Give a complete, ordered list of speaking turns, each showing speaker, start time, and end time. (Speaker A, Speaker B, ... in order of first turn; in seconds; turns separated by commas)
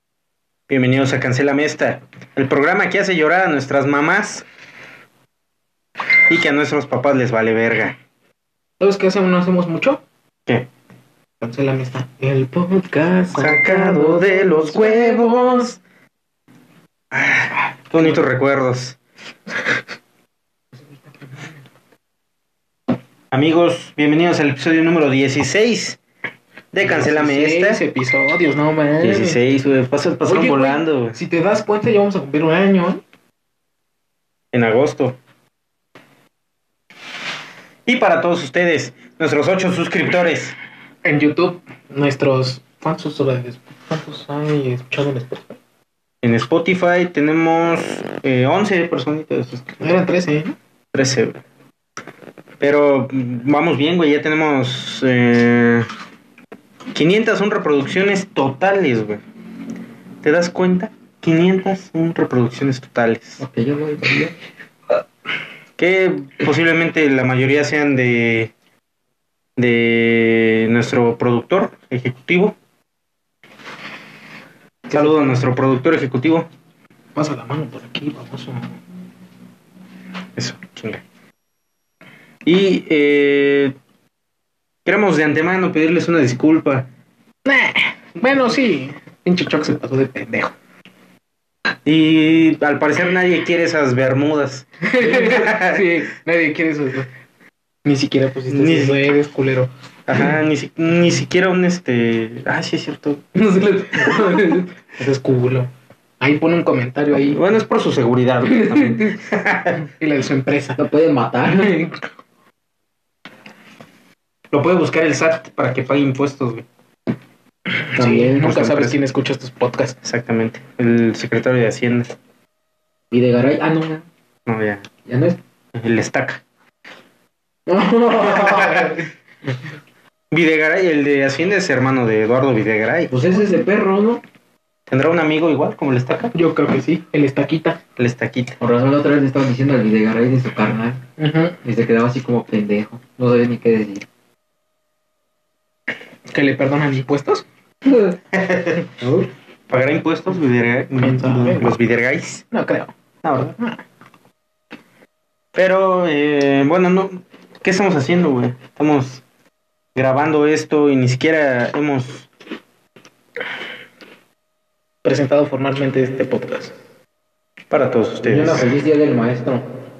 Speaker A: 0.7-4.5, Speaker A: 6.3-8.0, Speaker B: 8.8-10.0, Speaker B: 11.4-15.8, Speaker A: 13.3-15.7, Speaker A: 17.1-19.0, Speaker A: 23.3-26.0, Speaker A: 26.7-27.8, Speaker B: 26.8-29.4, Speaker A: 29.0-31.2, Speaker B: 30.2-33.0, Speaker A: 34.5-35.2, Speaker A: 37.9-40.5, Speaker B: 41.0-45.6, Speaker A: 46.2-50.0, Speaker B: 49.8-50.5, Speaker A: 50.9-51.4, Speaker A: 52.6-55.9, Speaker A: 56.9-59.2, Speaker A: 60.2-63.4, Speaker C: 63.4-64.3, Speaker A: 65.8-68.5, Speaker A: 69.6-72.6, Speaker A: 74.9-76.5, Speaker B: 77.1-78.7, Speaker A: 80.3-81.0, Speaker A: 82.4-83.8, Speaker A: 84.8-86.9, Speaker B: 87.4-90.5, Speaker A: 91.8-96.0, Speaker B: 94.8-97.1, Speaker B: 97.8-99.7, Speaker A: 98.5-99.0, Speaker A: 100.1-103.2, Speaker B: 103.3-107.4, Speaker A: 104.0-104.5, Speaker A: 107.3-109.8, Speaker B: 108.5-109.1, Speaker B: 109.8-110.8, Speaker C: 110.8-111.8, Speaker B: 111.6-112.0, Speaker A: 114.5-116.7, Speaker B: 117.9-120.0, Speaker C: 118.0-118.5, Speaker A: 118.2-119.0, Speaker A: 120.0-122.1, Speaker C: 123.1-124.0, Speaker A: 124.5-124.8, Speaker C: 125.0-125.4, Speaker A: 125.7-126.4, Speaker B: 127.7-129.0, Speaker A: 128.4-128.9, Speaker A: 130.3-133.1, Speaker C: 133.1-134.2, Speaker A: 134.9-136.3, Speaker B: 136.3-137.8, Speaker A: 138.0-138.6, Speaker C: 138.6-141.0, Speaker B: 141.2-141.6, Speaker C: 141.6-144.1, Speaker B: 146.3-147.4, Speaker C: 147.9-148.1, Speaker A: 148.3-148.8, Speaker C: 149.0-149.3, Speaker A: 149.7-152.4, Speaker B: 151.0-151.7, Speaker B: 152.5-152.9, Speaker A: 153.2-153.6, Speaker A: 155.5-159.2, Speaker A: 159.9-162.3, Speaker B: 165.0-166.7, Speaker A: 167.7-168.7, Speaker C: 168.2-169.7